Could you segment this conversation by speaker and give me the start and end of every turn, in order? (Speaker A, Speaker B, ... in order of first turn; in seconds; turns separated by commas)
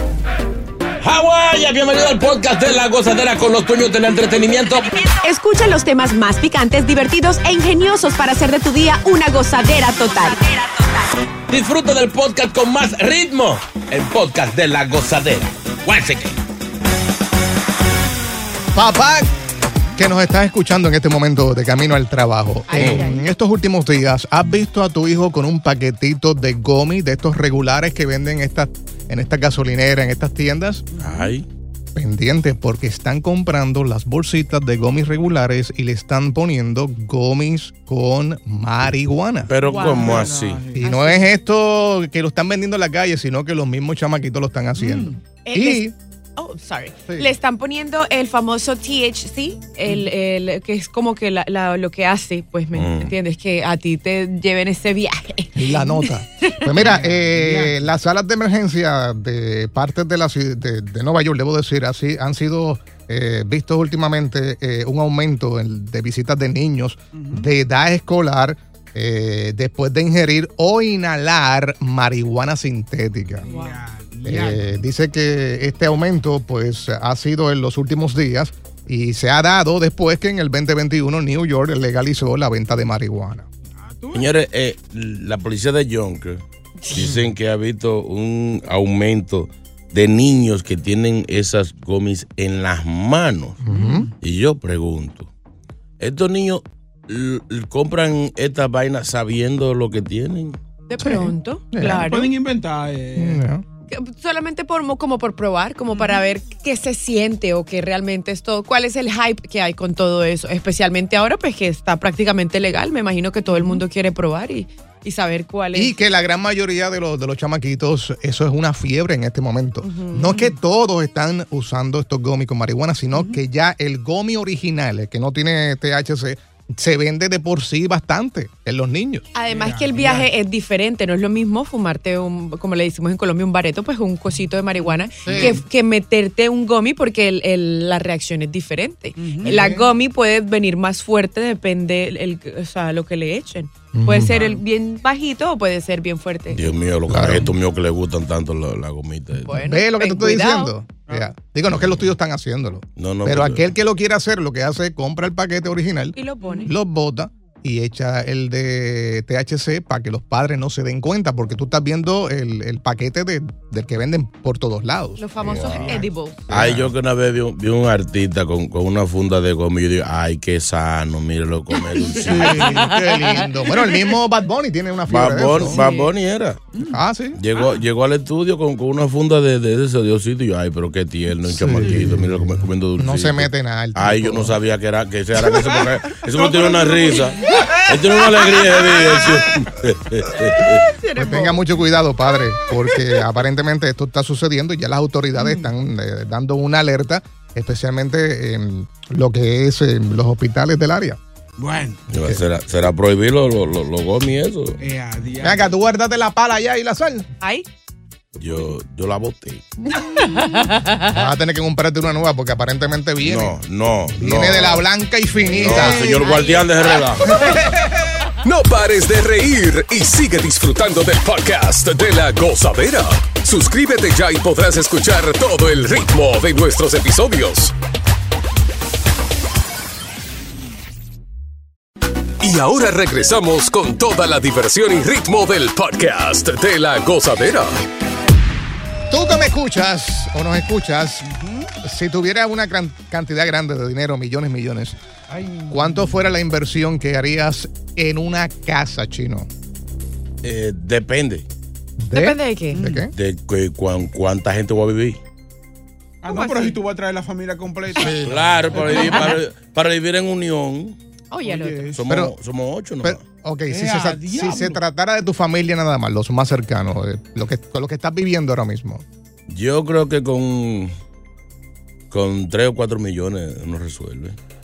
Speaker A: 1.0-5.1, Speaker B: 5.2-10.4, Speaker A: 11.5-16.4, Speaker C: 18.7-19.3, Speaker C: 20.0-30.8, Speaker B: 22.6-23.2, Speaker A: 22.8-23.0, Speaker D: 30.9-31.3, Speaker A: 31.0-31.4, Speaker C: 31.9-39.5, Speaker A: 39.5-40.6, Speaker D: 39.6-40.9, Speaker B: 39.7-40.3, Speaker C: 40.7-45.9, Speaker B: 40.8-41.3, Speaker D: 44.8-45.2, Speaker B: 45.4-56.7, Speaker A: 52.7-53.1, Speaker C: 55.5-73.5, Speaker D: 56.8-57.8, Speaker D: 67.1-67.5, Speaker D: 73.4-74.7, Speaker B: 73.4-73.8, Speaker C: 74.2-83.5, Speaker D: 83.8-84.3, Speaker A: 84.1-93.6, Speaker B: 86.8-87.0, Speaker C: 87.0-87.3, Speaker C: 93.6-94.1, Speaker D: 93.7-94.1, Speaker A: 94.2-95.3, Speaker A: 96.0-100.6, Speaker B: 100.9-102.3, Speaker C: 101.0-102.1, Speaker D: 101.8-103.4, Speaker C: 103.2-103.6, Speaker B: 103.9-115.9, Speaker D: 105.9-106.2, Speaker D: 113.5-113.8, Speaker C: 115.7-129.3, Speaker B: 119.8-120.5, Speaker D: 123.1-123.4, Speaker B: 129.3-146.6, Speaker D: 129.4-130.3, Speaker D: 134.8-135.6, Speaker C: 135.2-135.6, Speaker D: 139.2-139.9, Speaker C: 143.9-144.4, Speaker D: 144.3-144.6, Speaker A: 146.5-149.6, Speaker C: 147.1-147.5, Speaker B: 149.4-150.7, Speaker C: 149.5-166.9, Speaker D: 151.1-151.3, Speaker A: 151.7-152.1, Speaker A: 152.9-153.7, Speaker B: 156.2-156.7, Speaker D: 156.4-156.7, Speaker B: 165.2-166.4, Speaker D: 165.4-166.1, Speaker A: 166.5-172.8, Speaker D: 172.0-174.1, Speaker C: 172.2-175.8, Speaker A: 175.1-176.6, Speaker B: 175.7-176.1, Speaker C: 176.9-177.4, Speaker A: 177.3-190.8, Speaker D: 177.6-177.8, Speaker C: 181.4-184.6, Speaker D: 181.8-182.1, Speaker D: 185.6-188.6, Speaker B: 190.6-191.6, Speaker C: 191.2-201.2, Speaker D: 201.6-202.0, Speaker A: 202.1-204.8, Speaker C: 202.1-202.4, Speaker D: 204.8-205.7, Speaker C: 205.4-207.3, Speaker B: 207.4-207.7, Speaker A: 208.4-209.6, Speaker B: 210.0-211.1, Speaker C: 211.1-213.6, Speaker A: 213.2-214.8, Speaker C: 214.2-216.2, Speaker D: 215.5-216.7, Speaker A: 215.6-217.5, Speaker B: 216.2-216.7, Speaker C: 217.2-218.1, Speaker E: 218.4-227.7, Speaker E: 232.4-237.8, Speaker C: 239.1-241.3, Speaker D: 241.2-241.7, Speaker C: 241.8-245.0, Speaker D: 245.3-246.3, Speaker C: 245.7-249.5, Speaker A: 250.4-251.4, Speaker C: 252.0-253.1, Speaker B: 252.1-252.8, Speaker D: 252.7-253.1, Speaker A: 253.1-255.2, Speaker D: 256.2-259.4, Speaker B: 256.2-256.8, Speaker C: 257.9-259.1, Speaker A: 258.2-261.0, Speaker B: 259.0-259.3, Speaker B: 261.3-261.9, Speaker D: 261.4-262.0, Speaker A: 261.9-263.2, Speaker C: 262.1-262.3, Speaker C: 263.0-269.0, Speaker D: 263.7-264.8, Speaker A: 269.5-270.9, Speaker A: 272.1-274.4